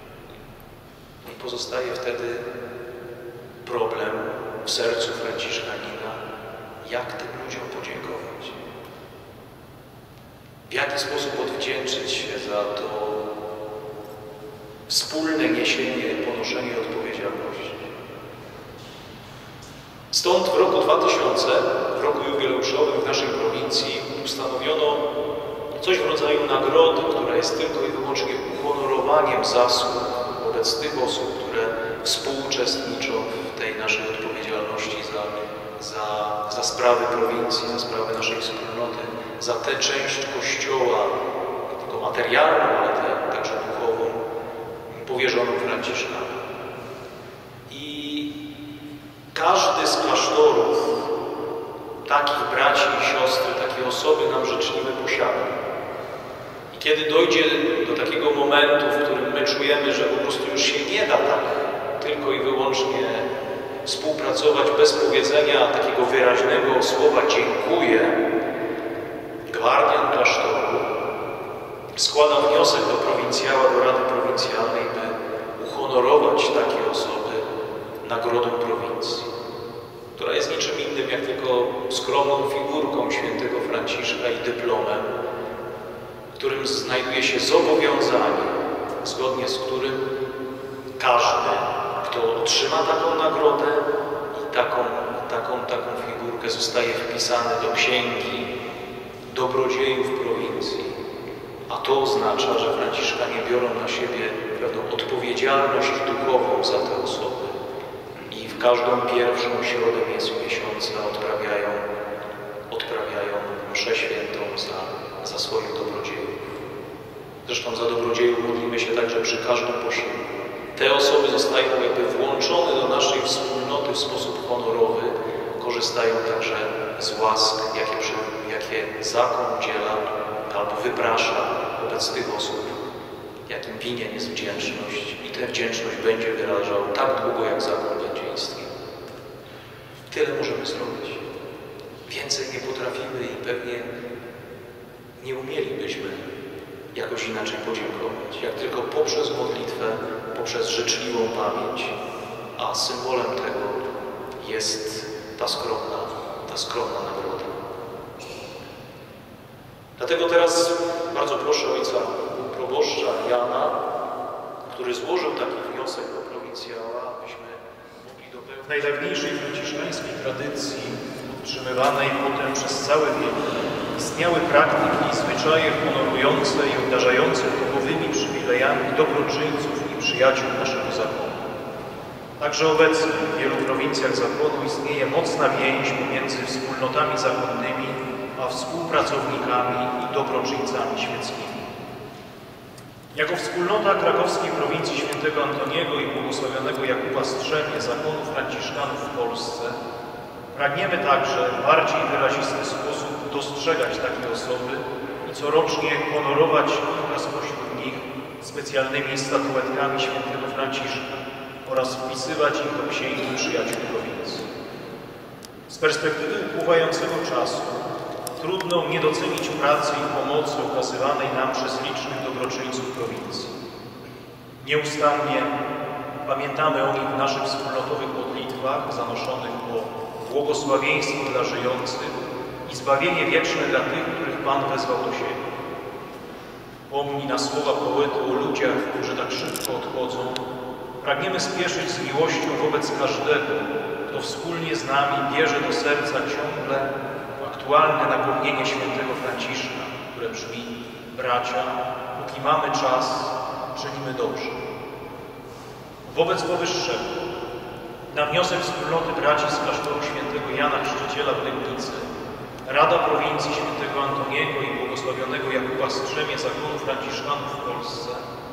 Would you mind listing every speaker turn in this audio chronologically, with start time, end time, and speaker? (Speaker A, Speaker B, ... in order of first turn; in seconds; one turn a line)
Speaker A: 1.2-2.5
Speaker A: 3.6-6.2
Speaker A: 6.8-8.6
Speaker A: 10.7-13.2
Speaker A: 14.9-17.9
Speaker A: 20.1-25.0
Speaker A: 25.8-41.1
Speaker A: 41.7-44.2
Speaker A: 44.9-46.4
Speaker A: 47.7-48.3
Speaker A: 49.3-51.0
Speaker A: 52.0-55.6
Speaker A: 56.7-63.3
Speaker A: 63.8-68.2
Speaker A: 69.5-70.9
Speaker A: 71.9-77.5
Speaker A: 78.0-79.3
Speaker A: 80.2-85.1
Speaker A: 86.3-90.0
Speaker A: 91.0-98.5
Speaker A: 99.3-100.9
Speaker A: 101.7-107.5
Speaker A: 108.3-111.8
Speaker A: 112.7-116.3
Speaker A: 117.4-132.8
Speaker A: 133.4-138.7
Speaker A: 140.1-141.2
Speaker A: 142.1-143.9
Speaker A: 145.2-146.3
Speaker A: 146.9-151.9
Speaker A: 152.6-153.8
Speaker A: 154.4-157.6
Speaker A: 160.0-163.8
Speaker A: 164.6-173.4
Speaker A: 173.9-181.4
Speaker A: 182.4-191.6
Speaker A: 193.1-199.8
Speaker A: 200.5-214.5
Speaker A: 215.7-217.8
Speaker A: 218.4-223.5
Speaker A: 224.6-225.5
Speaker A: 226.2-232.1
Speaker A: 232.6-235.4
Speaker A: 236.9-240.4
Speaker A: 241.0-254.6
Speaker A: 256.1-257.1
Speaker A: 258.1-262.1
Speaker A: 262.6-268.2